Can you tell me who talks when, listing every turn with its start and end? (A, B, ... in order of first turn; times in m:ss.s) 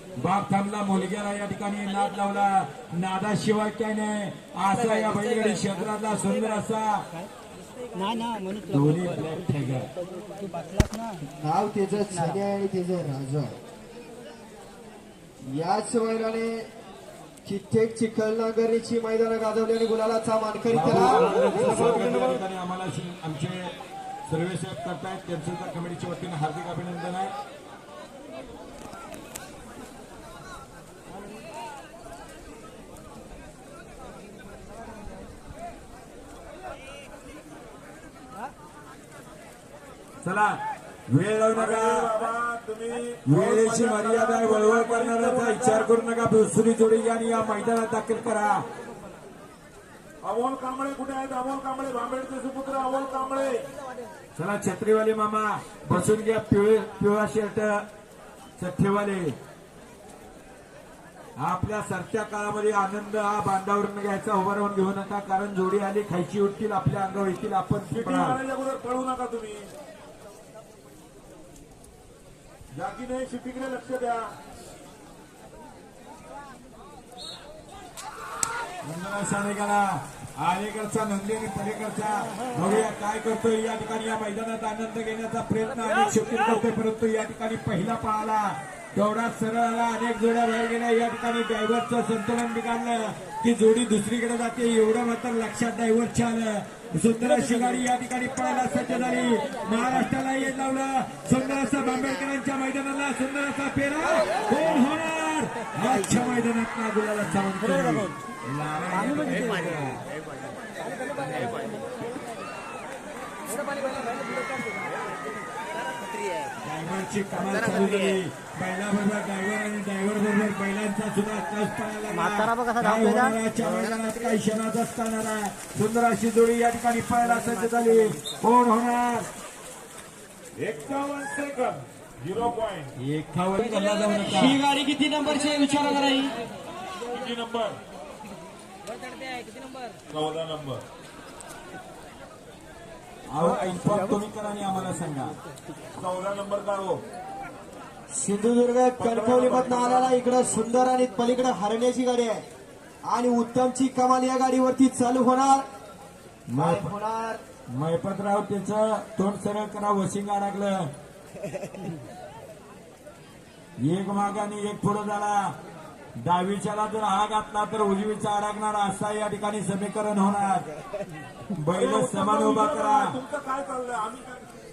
0:00.2-0:07.1 A
0:04.9-0:05.6 B
0:08.0-0:09.2 B
0:08.7-0:09.9 A
0:10.4-0:11.2 B
0:11.2-0:13.6 C
0:12.1-0:12.4 B
0:15.4-0:16.7 C
0:17.4-0:21.3 C
0:20.7-0:23.7 A
0:21.2-0:22.3 D
0:24.3-0:27.3 A
0:40.2-0:42.1 A
0:41.5-0:45.9 D
0:43.2-0:48.6 A
0:50.2-0:53.7 D
0:54.4-0:57.8 A
0:58.6-0:59.4 A
1:01.4-1:08.4 A
1:07.9-1:09.7 D
1:12.7-1:14.3 D
1:18.8-1:50.0 A
1:47.7-1:48.1 B
1:49.1-1:49.8 B
1:51.2-1:51.6 B
1:53.7-1:54.5 B
1:56.6-2:09.3 A
2:02.1-2:03.4 B
2:10.6-2:12.9 D
2:13.0-2:14.6 A
2:14.2-2:16.4 C
2:17.1-2:17.8 D
2:20.1-2:20.8 D
2:23.3-2:25.4 A
2:23.6-2:24.0 B
2:26.0-2:27.0 D
2:28.1-2:32.4 C
2:29.0-2:30.2 D
2:33.0-2:35.6 C
2:36.5-2:36.9 A
2:36.6-2:37.4 C
2:37.7-2:40.9 A
2:43.8-2:45.6 A
2:46.2-2:50.7 A
2:51.5-2:53.2 A
2:51.7-2:54.5 D